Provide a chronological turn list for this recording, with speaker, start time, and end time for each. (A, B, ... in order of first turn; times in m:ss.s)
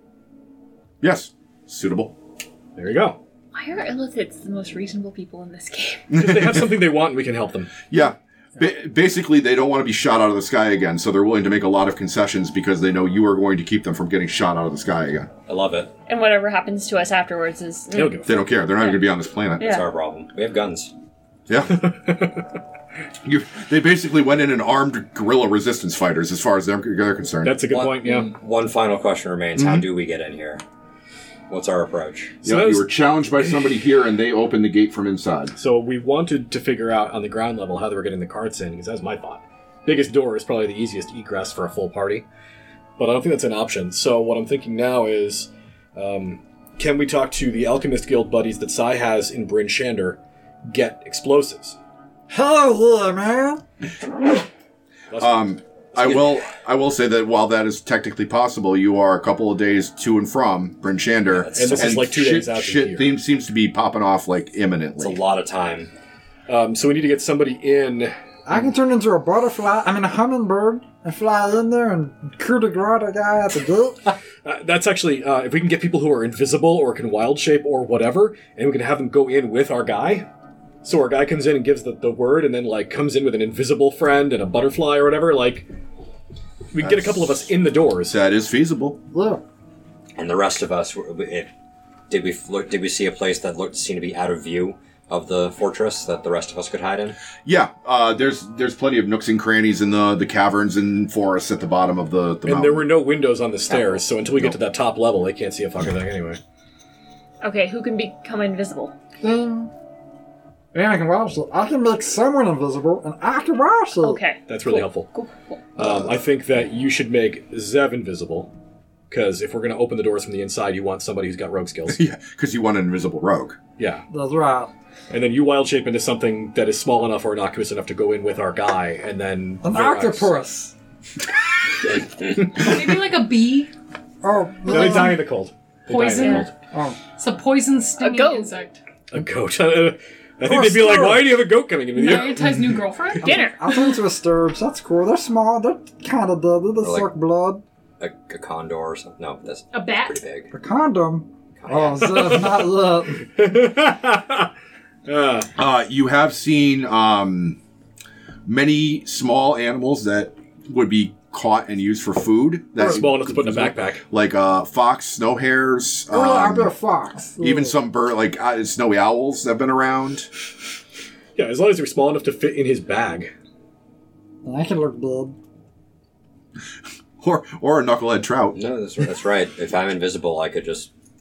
0:01.0-0:02.1 A
0:02.8-0:03.2 B
0:03.5-0:06.1 C
0:06.1-0:06.7 A
0:06.1-0:07.8 B
0:07.9-0:15.3 A
0:15.5-0:15.9 D
0:16.1-0:19.0 C
0:17.9-0:18.4 B
0:18.2-0:19.6 A
0:19.6-0:19.8 C
0:19.6-0:20.9 D
0:21.5-0:21.8 A
0:21.7-0:22.5 B
0:23.2-0:27.6 A
0:27.4-0:28.3 B
0:27.7-0:30.6 D
0:31.5-0:32.4 D
0:32.4-0:33.5 B
0:32.4-0:35.5 A
0:35.6-0:42.2 B
0:43.0-0:51.8 B
0:52.3-0:53.6 E
0:55.1-0:55.5 B
0:55.2-1:05.2 A
1:01.3-1:02.1 D
1:01.5-1:03.1 B
1:05.0-1:05.9 D
1:06.5-1:08.2 B
1:08.4-1:14.1 E
1:14.4-1:20.3 B
1:20.8-1:25.7 B
1:26.7-1:28.2 B
1:26.8-1:29.0 A
1:29.1-1:29.4 E
1:30.2-1:31.5 D
1:32.1-1:37.2 D
1:37.4-1:42.9 A
1:42.4-1:46.4 B
1:43.7-1:44.0 D
1:47.4-1:48.9 C
1:49.2-1:49.7 E
1:50.7-1:54.2 E
1:54.0-1:55.6 C
1:54.5-1:55.1 B
1:55.8-1:58.5 B
1:59.1-2:02.0 B
2:01.9-2:03.6 A
2:03.8-2:04.0 B
2:04.1-2:04.7 E
2:05.1-2:10.3 B
2:09.6-2:10.7 E
2:12.5-2:13.7 F
2:14.2-2:15.2 E
2:14.6-2:16.5 B
2:15.9-2:16.5 F
2:16.2-2:16.4 C
2:16.7-2:17.0 E
2:17.1-2:18.8 F
2:18.0-2:18.5 C
2:19.1-2:22.5 B
2:20.4-2:21.5 E
2:21.9-2:23.5 F
2:23.2-2:27.6 E
2:23.2-2:23.8 C
2:26.8-2:27.1 D
2:28.0-2:30.5 D
2:29.7-2:30.2 F
2:30.5-2:33.2 E
2:31.6-2:32.4 D
2:32.0-2:34.5 B
2:35.0-2:35.5 B
2:35.6-2:37.6 A
2:38.4-2:46.7 A
2:42.8-2:44.0 B
2:46.1-2:47.8 E
2:47.4-2:50.3 A
2:51.4-2:53.3 B
2:54.4-2:55.4 E
2:57.2-2:58.6 A
2:58.5-3:00.9 D